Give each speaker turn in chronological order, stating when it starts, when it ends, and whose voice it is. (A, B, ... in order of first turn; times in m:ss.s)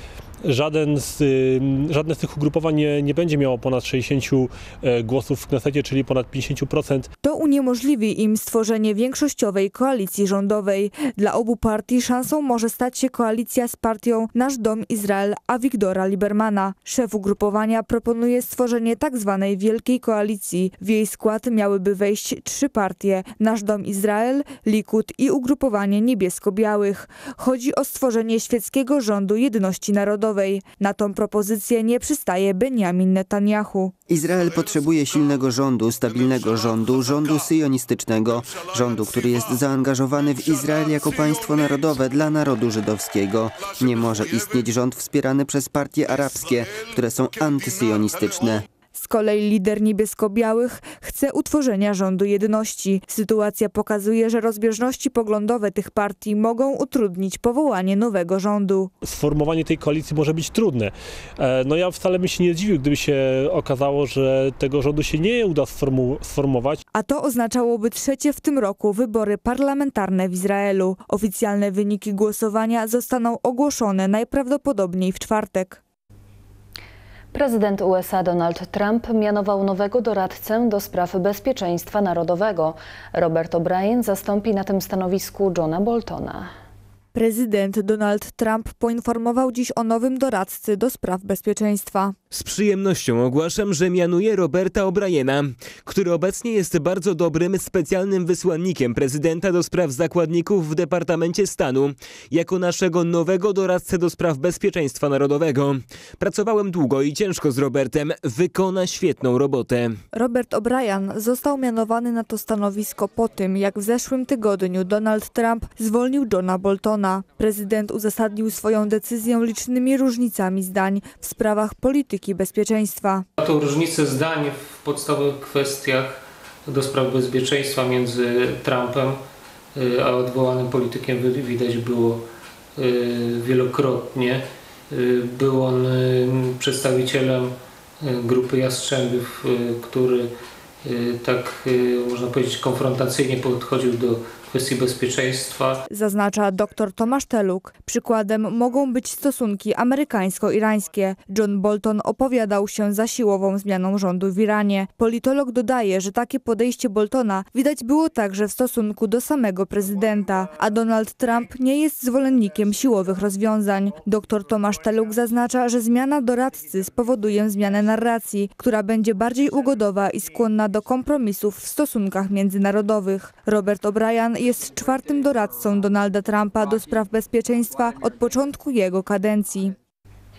0:00.4-0:07.1 A
0:07.2-0:33.9 B
0:34.1-0:48.6 C
0:48.9-0:58.9 B
0:59.0-1:06.8 A
1:06.9-1:15.8 B
1:17.3-1:26.5 D
1:27.1-1:32.1 B
1:32.3-1:50.0 E
1:50.1-2:03.2 B
2:03.4-2:09.2 F
2:09.8-2:12.2 F
2:12.8-2:20.3 F
2:20.8-2:25.8 F
2:25.9-2:59.7 B